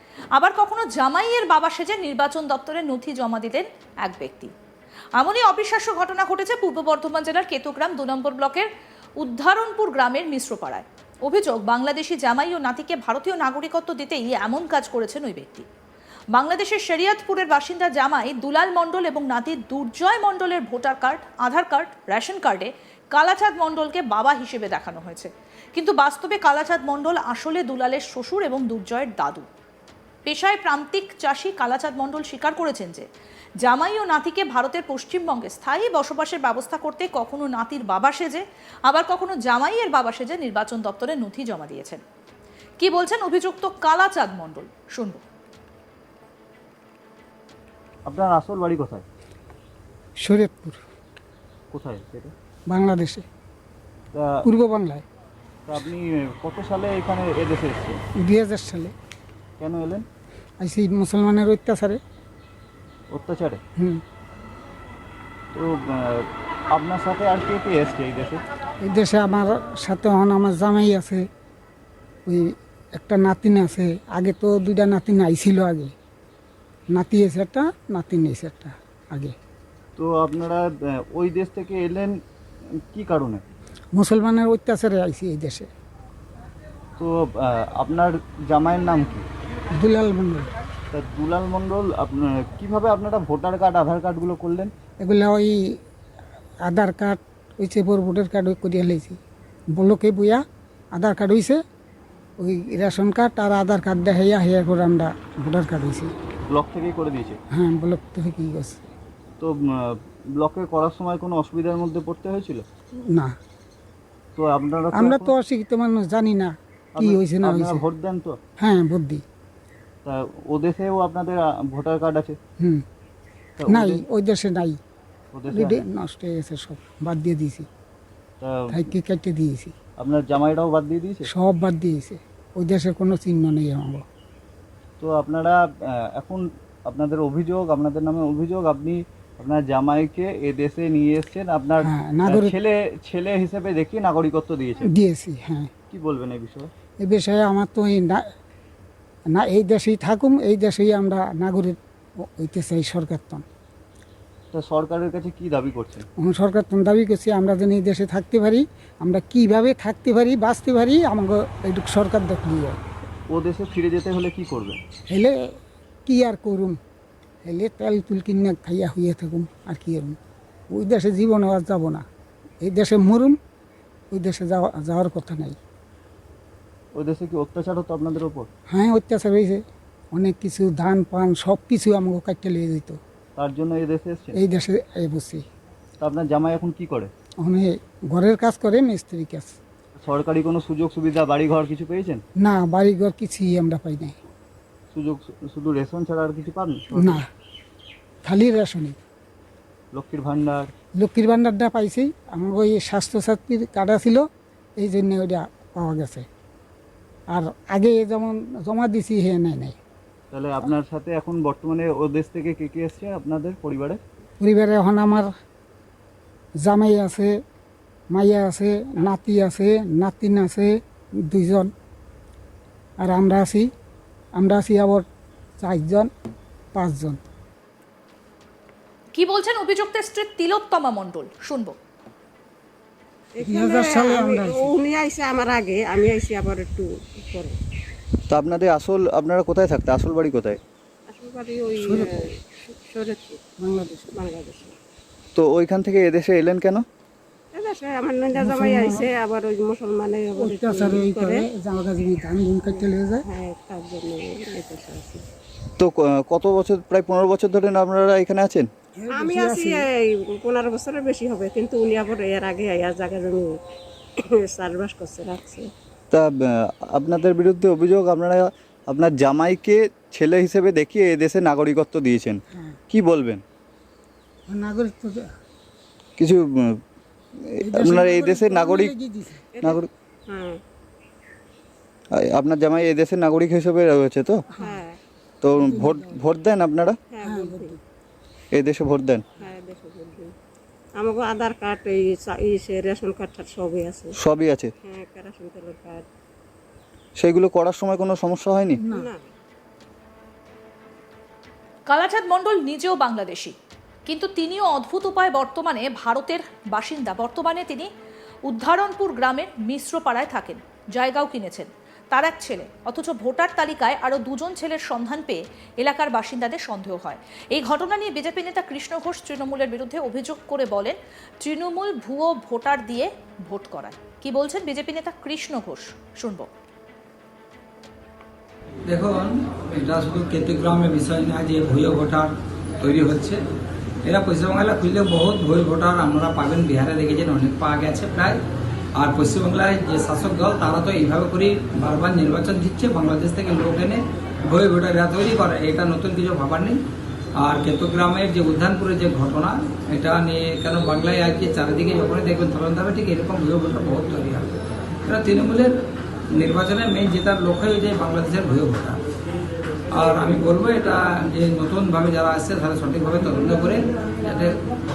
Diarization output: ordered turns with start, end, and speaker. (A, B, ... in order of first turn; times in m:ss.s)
0:00.4-0:04.5 A
0:05.2-0:08.7 A
0:09.2-0:15.7 A
0:16.4-0:29.5 A
0:30.3-0:33.1 A
0:33.6-0:42.0 A
0:42.8-0:45.2 A
0:48.1-0:49.0 B
0:50.2-0:50.8 C
0:51.7-0:52.3 B
0:52.7-0:53.2 C
0:54.1-0:54.4 B
0:54.5-0:55.0 C
0:55.7-0:58.0 B
0:58.2-0:58.9 C
0:59.6-1:00.1 B
1:00.6-1:02.0 C
1:03.1-1:03.6 B
1:05.5-1:08.4 B
1:08.8-1:11.3 C
1:12.3-1:15.9 C
1:16.9-1:19.4 C
1:20.0-1:22.2 B
1:22.9-1:23.4 B
1:24.0-1:25.7 C
1:27.0-1:29.3 B
1:29.8-1:30.5 C
1:30.9-1:34.7 B
1:35.0-1:35.6 C
1:36.7-1:39.2 C
1:39.8-1:40.4 C
1:41.0-1:41.6 C
1:42.4-1:46.1 C
1:46.5-1:47.4 B
1:47.6-1:48.9 C
1:49.4-1:52.6 B
1:54.4-1:55.4 B
1:54.9-1:57.8 C
1:57.0-1:58.4 B
1:58.6-1:59.2 C
2:00.0-2:02.4 B
2:03.6-2:04.0 B
2:03.6-2:04.8 C
2:05.3-2:05.8 B
2:05.5-2:07.7 C
2:08.4-2:08.8 B
2:08.7-2:09.8 C
2:10.0-2:11.3 B
2:11.3-2:14.0 C
2:15.0-2:15.6 B
2:16.1-2:24.9 B
2:21.8-2:22.5 C
2:24.8-2:25.7 C
2:25.9-2:26.7 B
2:27.0-2:28.3 C
2:29.4-2:33.4 C
2:34.5-2:36.0 B
2:36.2-2:42.8 C
2:43.3-2:44.8 B
2:46.1-2:46.8 C
2:47.4-2:50.2 C
2:50.7-2:52.1 C
2:52.6-2:53.4 C
2:54.1-2:55.6 C
2:57.0-2:58.5 B
2:58.7-2:59.6 C
3:00.1-3:03.0 C
3:03.4-3:04.4 B
3:04.4-3:05.4 C
3:06.0-3:07.1 B
3:07.4-3:09.6 C
3:10.0-3:12.2 B
3:12.4-3:14.2 C
3:14.9-3:17.2 B
3:17.0-3:17.3 C
3:18.2-3:19.0 C
3:19.9-3:20.7 B
3:21.0-3:24.3 C
3:24.8-3:26.3 C
3:27.3-3:29.8 C
3:30.3-3:34.0 B
3:34.4-3:35.3 C
3:36.6-3:37.3 C
3:38.1-3:40.8 C
3:41.3-3:41.7 C
3:43.0-3:43.7 C
3:44.4-3:45.1 C
3:45.6-3:46.1 C
3:46.8-3:47.2 C
3:49.2-3:51.8 A
3:53.4-3:54.7 C
3:53.4-3:57.6 D
3:58.3-4:00.6 B
4:01.1-4:02.0 D
4:01.8-4:02.1 C
4:02.8-4:03.4 D
4:03.6-4:04.2 C
4:04.2-4:04.8 D
4:05.4-4:06.8 B
4:07.6-4:11.4 D
4:08.3-4:09.1 C
4:10.3-4:13.3 C
4:12.7-4:15.2 D
4:15.8-4:18.7 B
4:19.0-4:19.9 C
4:19.2-4:19.8 D
4:20.4-4:23.5 D
4:24.5-4:25.6 D
4:26.1-4:33.4 B
4:32.5-4:32.8 C
4:34.5-4:35.3 C
4:36.2-4:36.8 B
4:37.4-4:39.0 B
4:37.6-4:39.5 C
4:39.6-4:39.9 B
4:40.3-4:40.6 D
4:42.1-4:44.4 B
4:44.6-4:44.8 C
4:44.6-4:45.0 D
4:45.4-4:47.0 B
4:45.5-4:46.2 C
4:47.1-4:47.7 D
4:47.2-4:47.8 C
4:48.6-4:49.2 B
4:49.4-4:50.3 D
4:51.0-4:54.1 D
4:54.2-4:54.7 B
4:54.8-4:56.0 D
4:57.2-4:58.8 B
4:58.8-4:59.1 C
5:01.9-5:03.6 A
5:04.1-5:07.9 A
5:08.5-5:26.5 A
5:28.9-5:33.4 E
5:34.0-5:38.4 E
5:39.0-5:46.8 E
5:47.4-5:54.5 E
5:55.0-5:55.7 E
5:56.3-5:59.0 E
5:59.9-6:04.6 E